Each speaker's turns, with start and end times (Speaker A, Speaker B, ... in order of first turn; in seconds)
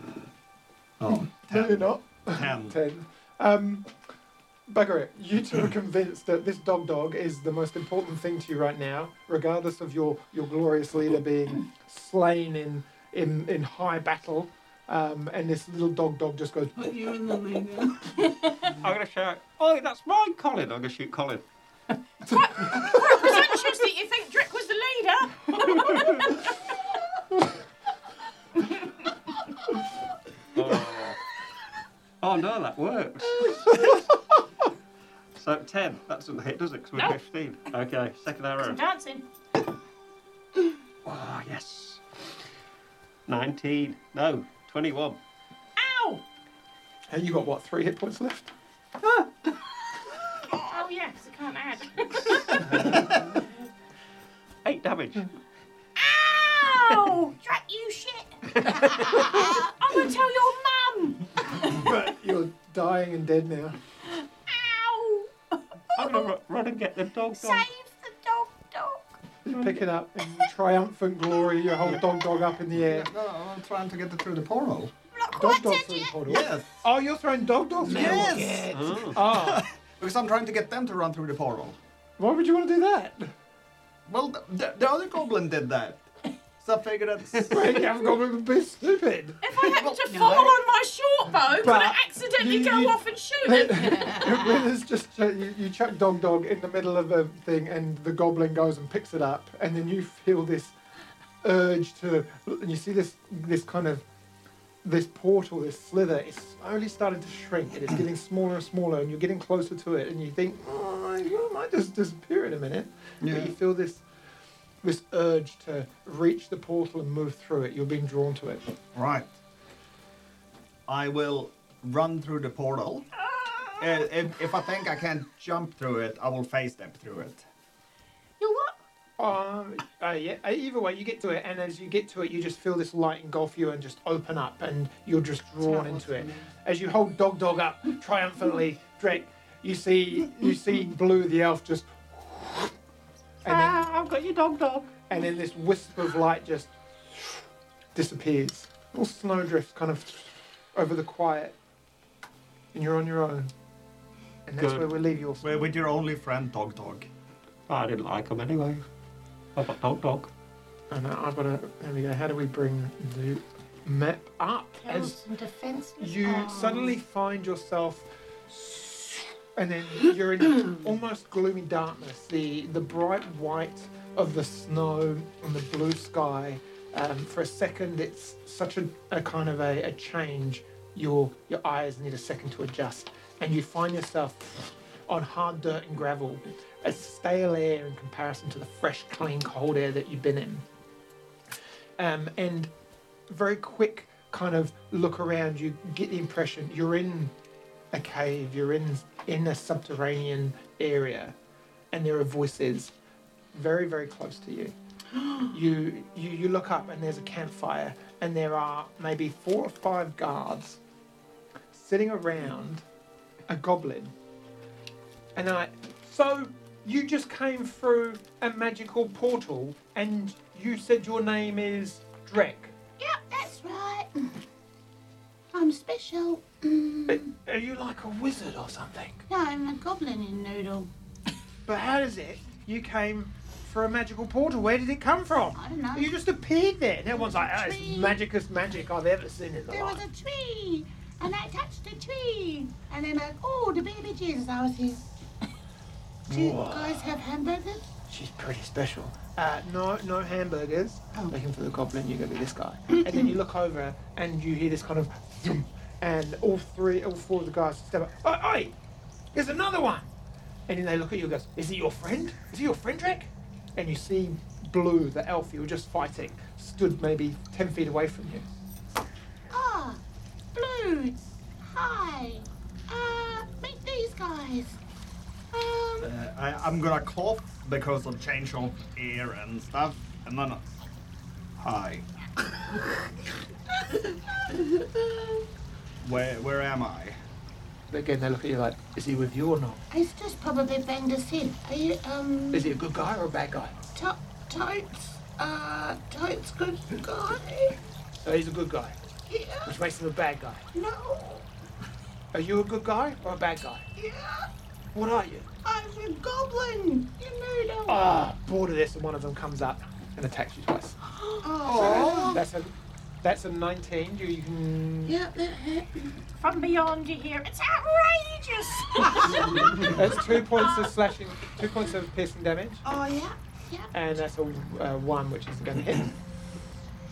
Speaker A: 1.0-2.8, 72.7-74.9, 76.2-76.8, 77.9-78.7, 79.2-81.8, 84.1-86.0, 86.6-87.6, 89.7-90.3, 113.2-113.5, 118.9-119.3, 120.9-123.1, 123.8-127.4, 155.4-157.1, 276.0-280.7, 281.6-282.1, 286.0-287.2, 311.6-312.4
Speaker B: 1.4-3.9, 4.7-16.9, 47.1-48.5, 61.5-63.8, 69.4-73.1, 75.3-78.5, 79.1-79.7, 82.2-83.3, 87.5-89.7, 91.5-100.7, 101.4-104.0, 104.8-114.0, 114.8-118.7, 129.2-142.7, 143.4-143.8, 145.1-146.7, 147.9-151.5, 152.7-153.5, 154.5-155.8, 160.9-165.2, 166.0-190.6, 192.0-192.7, 193.3-197.3, 197.9-201.3, 201.9-202.9, 203.5-204.7, 205.4-210.8, 211.7-212.8, 213.5-214.1, 215.3-222.7, 227.1-229.2, 231.7-240.0, 246.3-247.0, 248.1-258.7, 259.3-260.1, 260.7-268.5, 287.9-289.8, 292.5-293.8, 298.2-298.9, 299.6-300.6, 302.3-303.8, 304.9-305.5, 307.9-311.0, 311.7-315.1, 319.8-322.8, 323.9-326.1
Speaker C: 16.8-18.2, 90.1-90.5, 135.6-136.5
Speaker D: 18.2-18.7, 22.2-26.8, 38.6-39.2, 45.8-46.2, 50.5-53.0, 56.0-61.7, 64.2-66.3, 67.3-69.2, 75.1-76.1, 89.4-94.4, 123.2-124.1, 128.4-128.8, 165.2-165.9, 316.4-320.9
Speaker E: 18.7-21.4, 30.5-31.2, 32.2-34.1, 35.3-38.8, 41.0-42.0, 43.3-45.2, 54.6-55.3, 58.5-59.3, 65.9-67.7, 69.5-69.8, 78.7-79.2, 143.4-144.9, 154.6-154.9, 157.7-158.8, 159.6-160.3
Speaker F: 59.2-59.5, 77.8-79.0, 165.8-166.9, 223.0-224.4, 225.5-227.3, 229.3-230.9, 235.5-236.1, 237.1-238.2, 239.7-245.1, 246.3-247.8, 269.5-270.0, 270.5-274.8, 275.5-276.1, 289.9-292.7, 293.9-297.8, 299.3-299.7, 300.7-301.5, 303.9-304.5, 305.6-308.1, 311.4-312.4, 315.1-316.2, 319.1-319.6, 322.8-323.9